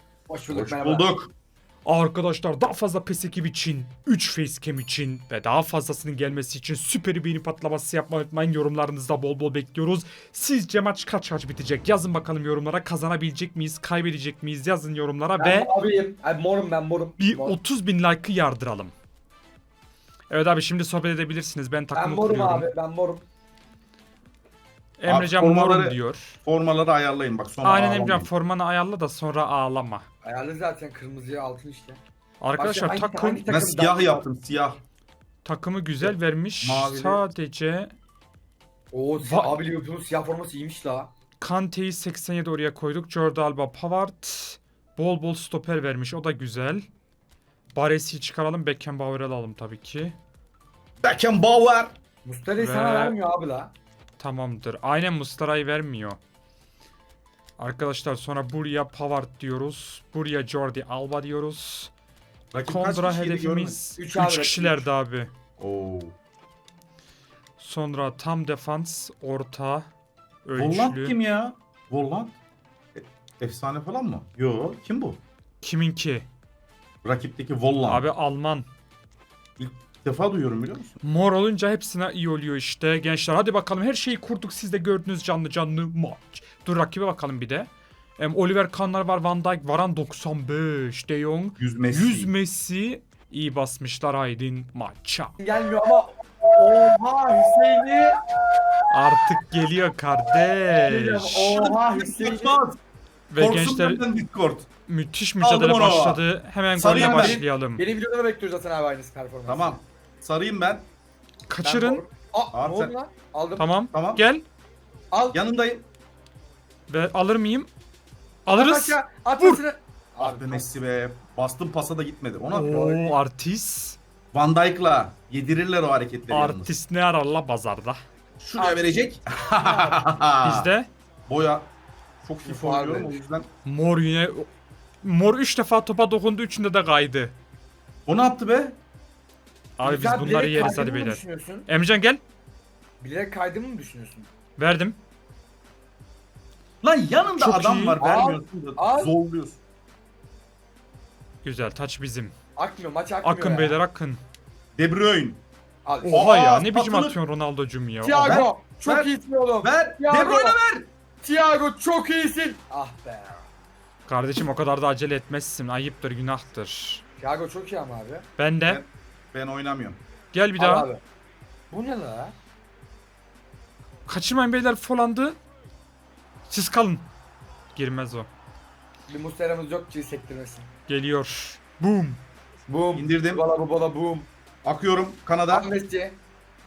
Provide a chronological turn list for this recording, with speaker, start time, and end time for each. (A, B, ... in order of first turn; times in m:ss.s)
0:00.3-0:01.1 A
0:00.5-0:01.3 B
0:01.8-0:15.7 C
0:15.4-0:17.6 A
0:17.2-0:18.9 C
0:20.3-0:22.7 C
0:21.9-0:23.2 A
0:25.0-0:26.4 C
0:25.1-0:28.3 B
0:27.6-0:30.0 C
0:30.2-0:32.0 A
0:32.4-0:33.4 C
0:32.6-0:34.2 A
0:33.5-0:34.8 B
0:35.4-0:37.9 C
0:36.6-0:37.2 B
0:38.9-0:41.1 A
0:39.2-0:39.6 C
0:41.4-0:46.9 C
0:47.8-0:50.2 C
0:51.0-0:51.9 B
0:52.2-0:53.7 A
0:52.6-0:53.1 C
0:54.2-0:56.2 C
0:57.6-1:01.9 C
1:02.5-1:03.8 B
1:02.6-1:05.3 C
1:04.0-1:04.9 A
1:05.6-1:06.2 B
1:07.6-1:09.9 C
1:10.4-1:11.2 C
1:10.6-1:12.4 B
1:13.0-1:15.2 B
1:15.6-1:16.3 C
1:17.0-1:18.0 B
1:17.9-1:18.7 C
1:19.6-1:21.0 B
1:21.0-1:35.4 C
1:31.6-1:32.3 B
1:35.4-1:38.2 A
1:38.9-1:41.5 C
1:40.8-1:42.6 A
1:41.5-1:42.8 B
1:43.3-1:44.0 C
1:43.4-1:44.7 B
1:44.9-1:47.8 C
1:45.4-1:46.2 B
1:46.7-1:47.4 B
1:46.9-1:49.8 A
1:49.5-1:50.9 B
1:51.5-1:52.0 C
1:51.6-1:53.7 A
1:52.5-1:52.9 B
1:53.6-1:54.4 C
1:53.9-1:54.2 B
1:55.1-1:55.4 A
1:55.3-1:55.8 B
1:56.9-1:57.7 C
1:58.5-1:59.6 C
1:58.5-2:00.7 A
2:00.2-2:03.0 B
2:02.5-2:04.0 C
2:02.7-2:03.2 A
2:04.3-2:06.8 B
2:06.3-2:08.0 C
2:08.4-2:10.7 B
2:08.6-2:08.9 A
2:09.6-2:10.1 A
2:10.4-2:10.9 C
2:11.3-2:11.7 B
2:12.2-2:13.5 B
2:12.4-2:13.2 A
2:13.6-2:14.5 C
2:15.0-2:17.4 C
2:18.1-2:18.8 B
2:19.8-2:22.2 C
2:19.8-2:21.7 A
2:23.0-2:24.3 A
2:24.6-2:25.0 C
2:26.8-2:29.6 B
2:27.4-2:28.0 C
2:28.0-2:29.1 A
2:31.4-2:32.3 C
2:32.6-2:33.8 A
2:33.2-2:34.2 C
2:34.8-2:35.4 B
2:35.9-2:36.3 A
2:36.1-2:37.2 B
2:36.1-2:38.5 C
2:38.0-2:40.6 A
2:38.2-2:39.1 B
2:39.6-2:40.9 B
2:41.2-2:43.4 A
2:44.1-2:47.0 C
2:47.2-2:48.3 A
2:48.4-2:48.8 C
2:48.7-2:50.0 B
2:50.3-2:50.9 C
2:50.6-2:51.0 A
2:51.7-2:52.3 A
2:54.1-2:55.4 C
2:56.5-2:57.1 C
2:57.8-2:58.3 C
2:59.1-3:00.7 A
3:00.9-3:02.2 C
3:02.7-3:04.3 A
3:02.9-3:03.4 B
3:04.6-3:05.7 B
3:05.5-3:06.2 A